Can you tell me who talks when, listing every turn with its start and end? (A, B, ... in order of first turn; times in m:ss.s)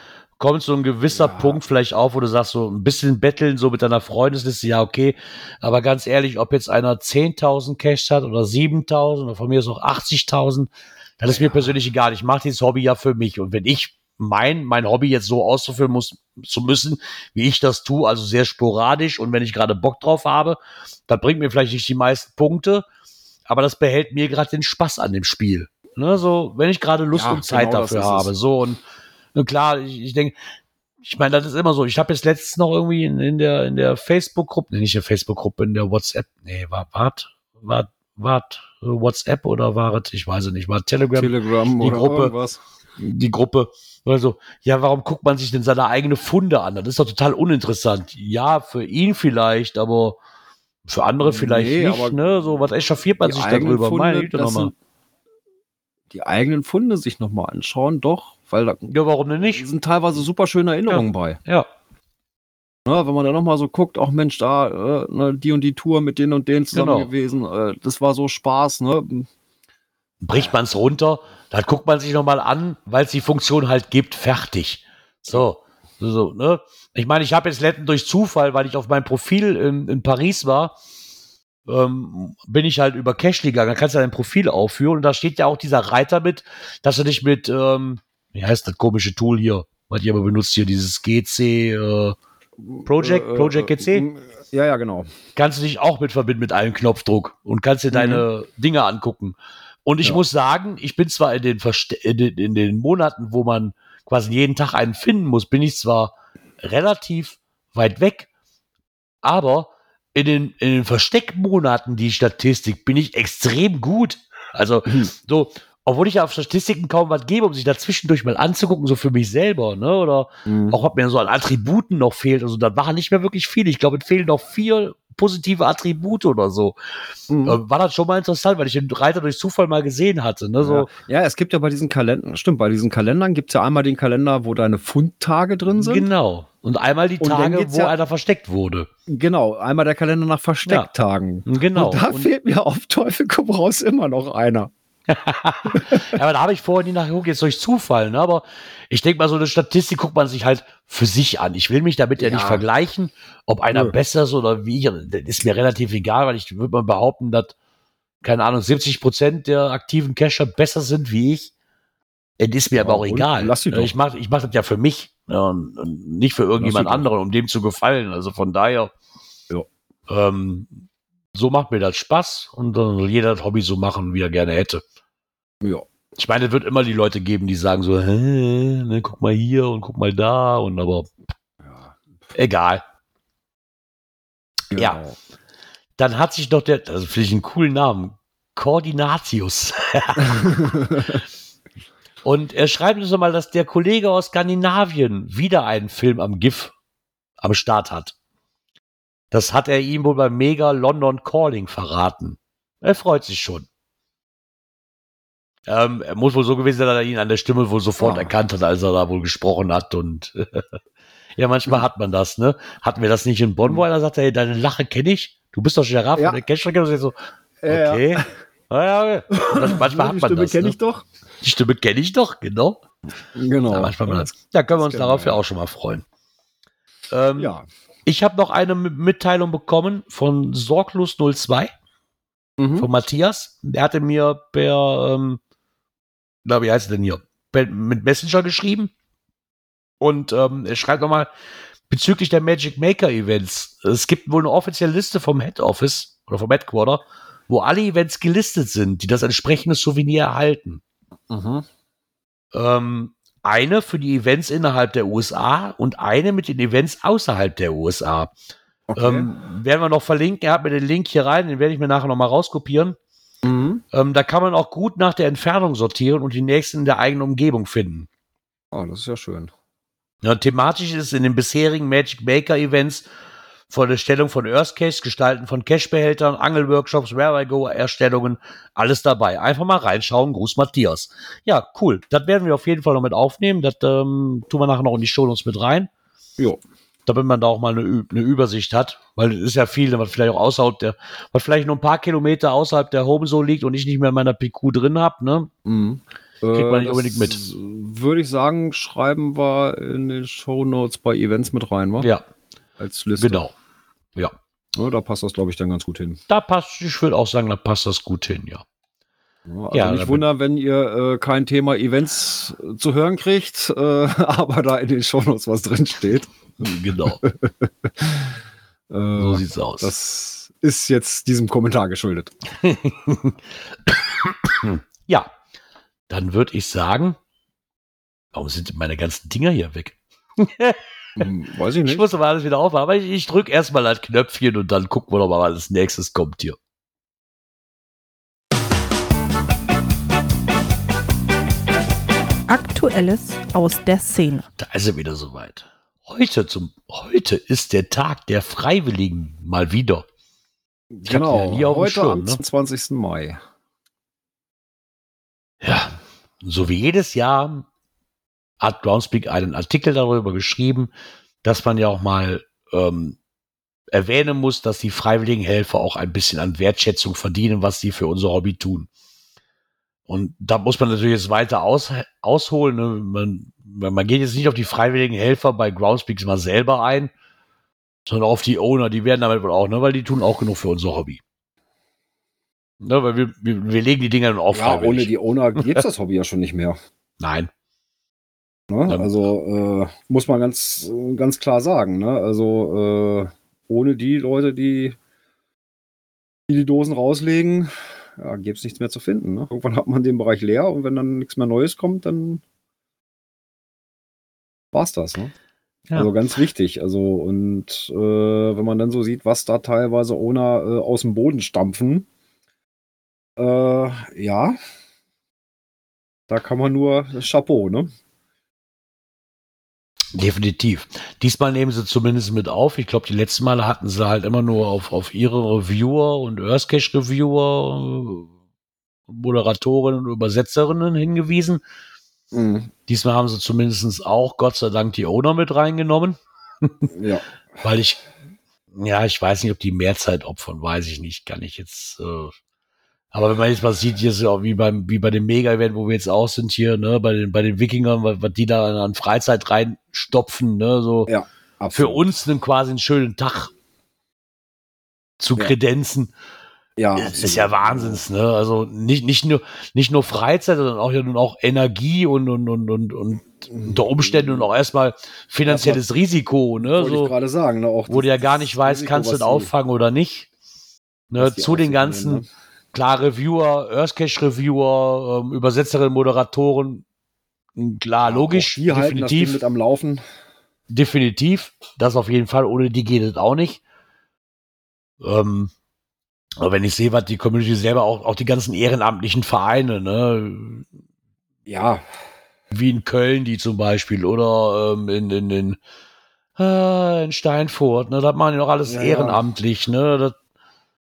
0:00.4-0:22.8 A
0:01.1-0:01.6 B
0:11.3-0:11.7 B
0:23.5-0:28.8 A
0:27.1-0:28.3 B
0:29.3-0:30.4 A
0:31.0-0:42.3 A
0:41.2-0:42.6 B
0:43.0-0:50.2 A
0:50.8-0:54.7 A
0:51.2-0:52.2 B
0:53.2-0:54.7 B
0:56.1-0:58.9 B
0:58.9-0:59.7 A
0:59.6-1:01.4 B
1:00.9-1:01.7 A
1:02.8-1:09.3 B
1:06.7-1:07.1 A
1:10.2-1:20.7 A
1:21.6-1:32.2 A
1:32.6-1:35.1 B
1:32.8-1:34.0 A
1:35.4-1:48.3 A
1:37.9-1:38.2 B
1:49.2-2:06.8 A
2:00.4-2:00.8 B
2:07.3-2:07.6 B
2:07.4-2:10.9 A
2:10.6-2:16.1 B
2:15.7-2:18.9 A
2:17.2-2:17.9 B
2:19.1-2:24.7 B
2:21.4-2:22.3 A
2:25.1-2:37.5 A
2:25.7-2:26.1 B
2:32.2-2:32.6 B
2:38.2-2:41.5 A
2:42.4-2:48.9 A
2:42.7-2:43.9 B
2:46.6-2:47.0 B
2:50.1-2:50.7 A
2:51.3-2:54.8 A
2:56.2-3:01.1 A
3:01.6-3:02.1 B
3:02.3-3:02.8 A
3:04.7-3:05.2 B
3:04.8-3:05.0 A
3:06.0-3:10.9 A
3:10.2-3:11.2 B
3:12.2-3:16.7 A
3:17.4-3:18.1 A
3:19.3-3:23.7 A
3:25.7-3:30.6 A
3:28.0-3:28.3 B
3:31.4-3:37.1 A
3:37.6-3:38.3 B
3:37.7-3:40.7 A
3:39.3-3:41.0 B
3:41.4-3:42.8 A
3:43.3-3:45.4 B
3:43.7-3:46.0 A
3:47.1-3:47.5 A
3:47.4-3:47.6 B
3:48.0-3:51.7 A
3:52.6-3:52.9 B
3:52.8-3:55.4 A
3:56.4-3:58.9 A
4:00.0-4:01.3 A
4:01.9-4:10.8 A
4:11.3-4:11.6 B
4:12.5-4:18.3 A
4:18.9-4:19.3 B
4:19.0-4:23.0 A
4:23.4-4:23.8 B
4:23.9-4:28.1 A
4:28.7-4:29.5 B
4:30.2-4:33.1 A
4:33.7-4:45.9 A
4:47.0-4:55.5 A
4:55.6-5:02.1 B
4:56.5-4:57.4 A
5:02.8-5:03.4 B
5:03.2-5:03.5 A
5:04.8-5:06.2 B
5:06.3-5:08.6 A
5:09.5-5:16.3 B
5:09.7-5:10.2 A
5:16.6-5:17.2 A
5:17.2-5:18.3 B
5:18.9-5:22.3 B
5:19.2-5:19.9 A
5:22.6-5:25.3 A
5:26.1-5:27.2 A
5:28.3-5:31.2 A
5:31.2-5:32.1 B
5:31.8-5:36.6 A
5:42.5-5:44.4 C
5:44.6-5:50.0 A
5:50.9-5:53.4 B
5:51.1-5:52.4 A
5:55.6-5:57.6 A
5:58.6-6:00.9 A
6:01.4-6:03.2 A
6:03.9-6:08.9 A
6:10.1-6:17.1 A
6:18.0-6:21.2 A
6:22.8-6:25.1 A
6:24.5-6:26.8 B
6:27.2-6:27.5 A
6:28.7-6:35.0 B
6:28.9-6:29.1 A
6:36.5-6:42.4 B
6:44.7-6:45.3 B
6:45.9-6:52.1 B
6:53.4-6:54.6 B
6:56.3-6:57.9 B
7:00.1-7:08.3 A
7:09.1-7:11.6 A
7:12.3-7:12.7 B
7:12.9-7:16.9 A
7:16.9-7:17.3 B
7:17.6-7:18.0 A
7:18.7-7:22.3 A
7:23.1-7:31.1 A
7:31.1-7:32.0 B
7:31.7-7:33.5 A
7:35.2-7:36.1 A
7:36.8-7:38.0 B
7:37.0-7:47.1 A
7:43.5-7:44.5 B
7:45.4-7:45.8 B
7:46.6-7:49.5 B
7:47.9-7:50.3 A
7:51.1-7:56.8 A
7:51.2-7:52.2 B
7:57.5-7:59.4 A
7:58.0-8:00.0 B
8:00.7-8:03.6 A
8:05.0-8:05.5 A
8:06.4-8:10.6 A
8:11.5-8:11.8 B
8:12.5-8:15.6 A
8:16.4-8:20.2 A
8:18.6-8:19.2 B